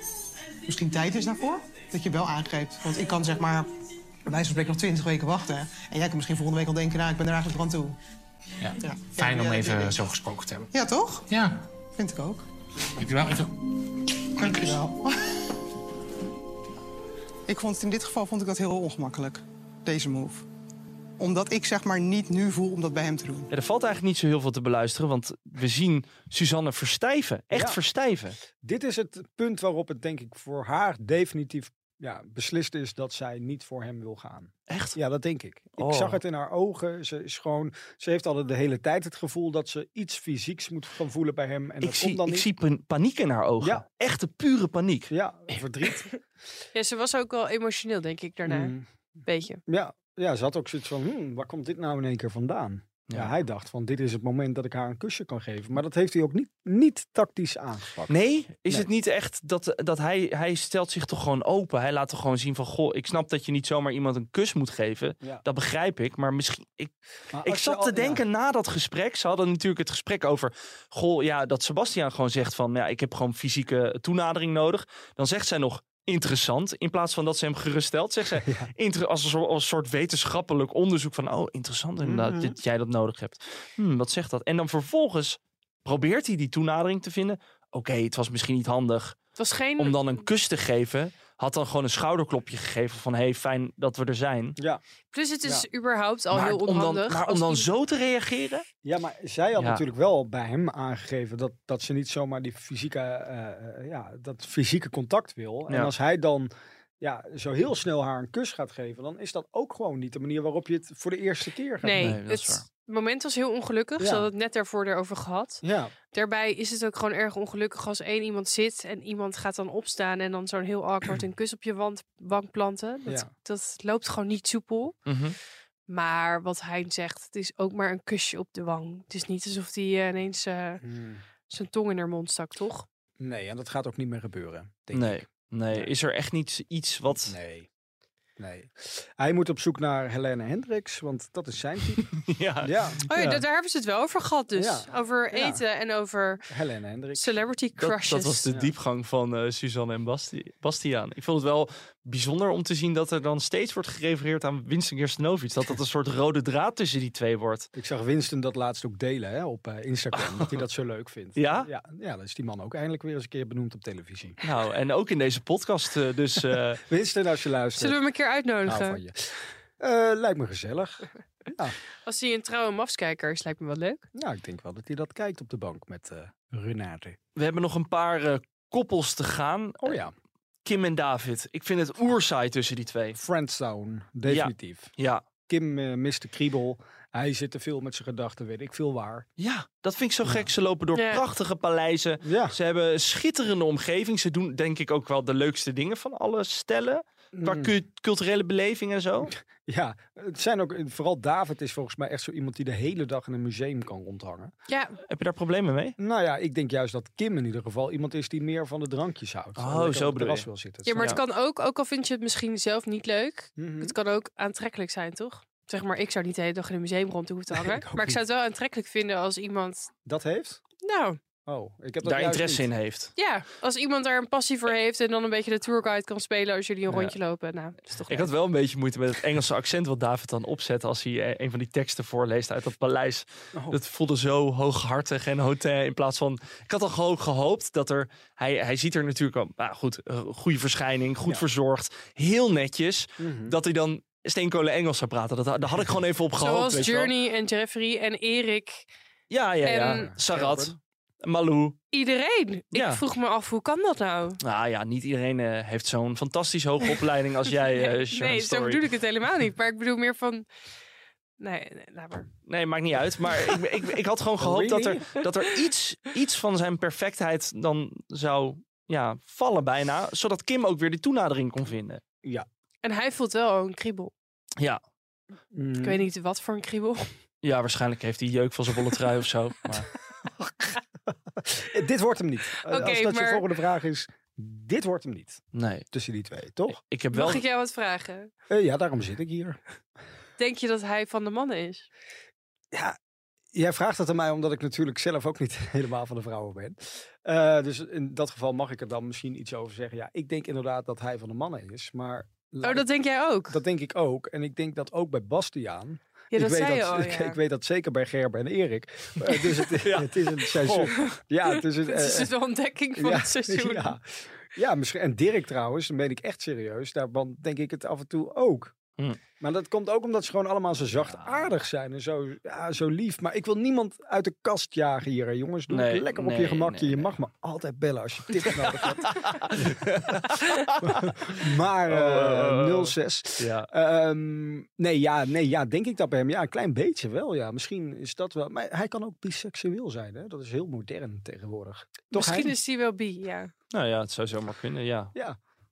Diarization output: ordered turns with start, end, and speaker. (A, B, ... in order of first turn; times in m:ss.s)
0:00.6-0:03.7 A
0:04.2-0:08.0 A
0:08.6-0:10.7 B
0:08.8-0:10.0 A
0:10.7-0:11.3 A
0:11.3-0:11.7 B
0:11.9-0:12.5 A
0:13.0-0:13.6 B
0:14.4-0:14.8 B
0:14.4-0:15.1 A
0:17.5-0:20.4 A
0:21.2-0:23.5 A
0:23.5-0:28.4 C
0:27.5-0:27.8 D
0:28.6-0:42.5 D
0:34.7-0:35.0 C
0:35.8-0:36.2 C
0:41.8-0:45.1 C
0:45.1-0:46.1 D
0:46.7-0:48.7 E
0:48.4-0:48.9 D
0:49.2-0:49.6 E
0:49.7-0:58.2 D
0:53.1-0:53.3 C
0:58.1-1:06.9 C
1:07.3-1:08.2 D
1:07.4-1:29.2 C
1:18.4-1:18.7 D
1:22.0-1:22.6 D
1:29.4-1:30.2 E
1:29.8-1:34.6 C
1:35.1-1:37.7 E
1:36.3-1:38.6 C
1:38.8-1:52.2 D
1:39.6-1:39.8 C
1:51.8-2:05.0 E
1:52.0-1:52.6 C
1:54.0-1:54.3 D
1:55.6-1:55.9 D
2:05.1-2:05.4 C
2:05.9-2:10.8 E
2:10.8-2:11.2 D
2:11.5-2:12.8 E
2:13.2-2:15.9 D
2:14.9-2:17.3 C
2:17.1-2:17.7 D
2:18.4-2:22.1 D
2:22.1-2:22.7 C
2:22.6-2:23.4 D
2:23.1-2:26.4 E
2:24.5-2:25.6 D
2:26.5-2:27.4 D
2:27.1-2:28.4 E
2:27.8-2:37.7 C
2:28.5-2:28.7 D
2:37.7-2:44.4 D
2:40.1-2:40.6 C
2:41.4-2:41.7 C
2:44.4-2:46.8 C
2:46.9-2:48.0 D
2:47.8-2:49.0 E
2:48.6-2:51.8 D
2:52.0-2:54.0 E
2:54.1-2:57.2 D
2:57.4-3:00.0 C
2:59.8-3:00.1 D
3:00.6-3:03.2 C
3:03.2-3:04.9 D
3:04.2-3:05.2 C
3:05.5-3:09.2 D
3:09.4-3:19.3 C
3:10.2-3:10.5 D
3:10.9-3:11.2 E
3:12.2-3:12.6 D
3:17.3-3:17.7 D
3:19.3-3:24.5 D
3:24.7-3:25.0 E
3:25.1-3:26.0 C
3:26.0-3:31.1 D
3:29.6-3:31.2 C
3:30.8-3:39.9 E
3:33.6-3:33.9 D
3:37.5-3:38.2 D
3:40.0-3:40.6 D
3:40.8-3:41.2 E
3:41.4-3:42.7 D
3:42.0-3:43.1 C
3:43.2-3:48.3 E
3:46.9-3:47.1 C
3:48.1-4:07.1 C
4:03.2-4:03.6 D
4:06.4-4:08.9 E
4:09.3-4:11.8 C
4:09.6-4:10.0 E
4:09.8-4:10.8 D
4:11.9-4:14.4 E
4:12.7-4:13.0 C
4:14.4-4:18.8 C
4:17.8-4:20.5 E
4:21.4-4:22.3 E
4:22.5-4:32.0 C
4:24.4-4:25.1 D
4:32.8-4:34.1 E
4:35.5-4:36.0 D
4:35.8-4:37.1 E
4:37.4-4:39.9 C
4:40.4-4:46.8 D
4:42.7-4:43.4 E
4:45.5-4:45.8 C
4:46.7-4:47.4 C
4:47.1-4:48.3 E
4:48.5-4:49.6 D
4:50.4-4:51.9 E
4:52.7-4:53.0 D
4:53.5-5:02.8 D
5:02.6-5:03.6 E
5:03.5-5:12.3 D
5:06.3-5:07.4 E
5:09.8-5:11.1 C
5:11.5-5:14.0 E
5:13.0-5:18.7 D
5:19.4-5:30.2 D
5:21.0-5:21.5 C
5:25.7-5:27.1 C
5:28.6-5:33.7 C
5:30.8-5:42.5 D
5:42.1-5:43.5 E
5:43.7-5:45.1 C